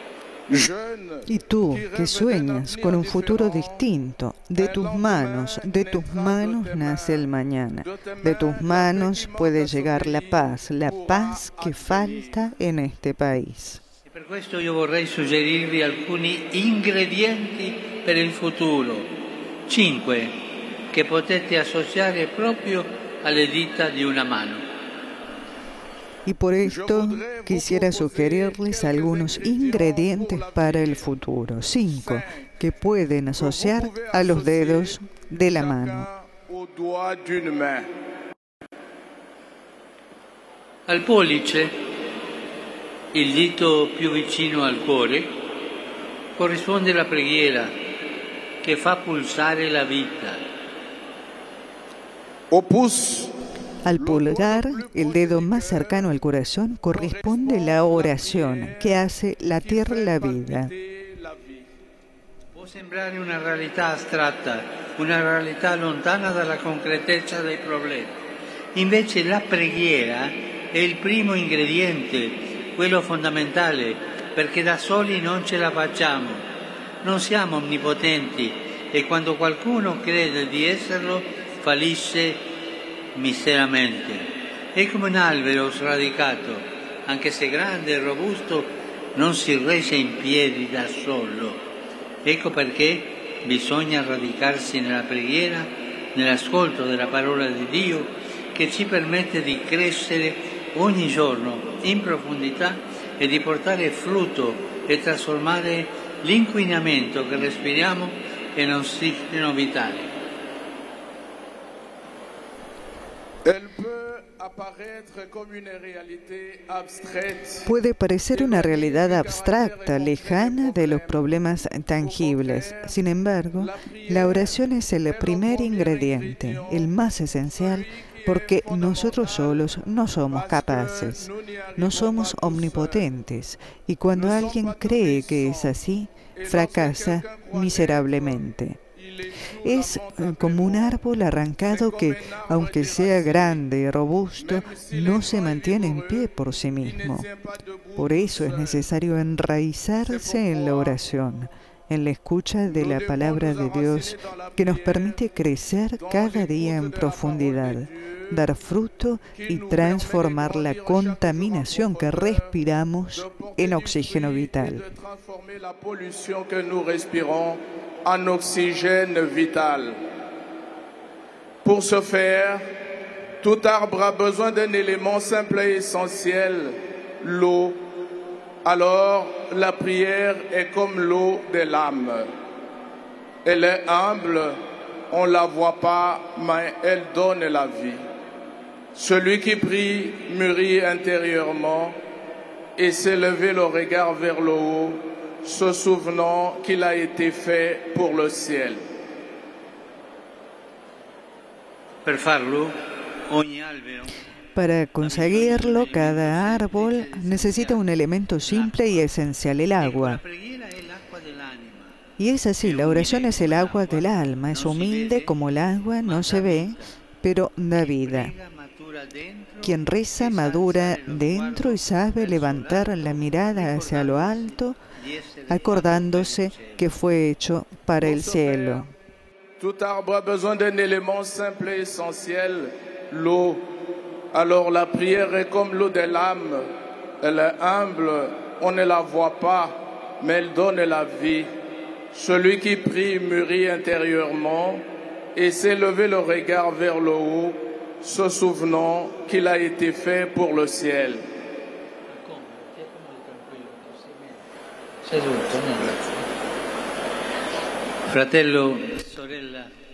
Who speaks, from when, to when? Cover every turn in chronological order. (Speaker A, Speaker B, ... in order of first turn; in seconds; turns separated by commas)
Speaker A: 0.5-3.8, Speaker B: 1.3-13.8, Speaker A: 4.5-7.2, Speaker A: 7.8-12.4, Speaker C: 14.1-19.1, Speaker C: 19.6-24.6, Speaker B: 26.2-36.1, Speaker A: 26.6-31.1, Speaker A: 31.9-32.5, Speaker A: 33.4-37.9, Speaker C: 40.9-41.7, Speaker C: 43.1-45.4, Speaker C: 46.4-47.7, Speaker C: 48.6-50.4, Speaker A: 52.5-53.3, Speaker B: 53.8-60.7, Speaker A: 54.0-56.1, Speaker A: 56.9-61.7, Speaker C: 62.5-68.2, Speaker C: 68.7-76.5, Speaker C: 77.0-82.4, Speaker C: 83.1-91.6, Speaker C: 92.2-110.1, Speaker A: 113.4-117.7, Speaker B: 117.6-138.8, Speaker A: 118.3-121.2, Speaker A: 122.0-122.9, Speaker A: 123.5-127.0, Speaker A: 127.5-129.7, Speaker A: 130.3-133.1, Speaker A: 134.1-135.8, Speaker A: 136.4-138.4, Speaker A: 139.0-141.0, Speaker B: 139.6-147.2, Speaker A: 141.6-143.7, Speaker A: 144.4-148.8, Speaker B: 148.0-164.8, Speaker A: 150.1-151.0, Speaker A: 152.7-155.2, Speaker A: 156.0-158.4, Speaker A: 159.3-162.6, Speaker A: 163.1-170.0, Speaker A: 171.6-172.6, Speaker A: 173.4-177.8, Speaker A: 178.6-182.3, Speaker A: 183.4-184.6, Speaker A: 185.1-188.0, Speaker A: 188.9-192.0, Speaker A: 192.8-198.9, Speaker C: 202.0-204.2, Speaker B: 204.6-210.2, Speaker C: 205.0-207.9, Speaker C: 208.4-209.1, Speaker C: 209.8-211.9, Speaker B: 212.2-218.3, Speaker C: 212.6-215.3, Speaker C: 216.0-216.9, Speaker C: 217.7-226.8, Speaker B: 219.6-224.8, Speaker B: 225.5-228.9, Speaker A: 228.0-228.9, Speaker A: 229.6-233.7, Speaker A: 234.3-236.7, Speaker A: 237.2-241.5, Speaker A: 242.1-244.8, Speaker A: 245.3-251.2, Speaker C: 252.1-254.4, Speaker C: 255.0-256.2, Speaker C: 258.0-259.7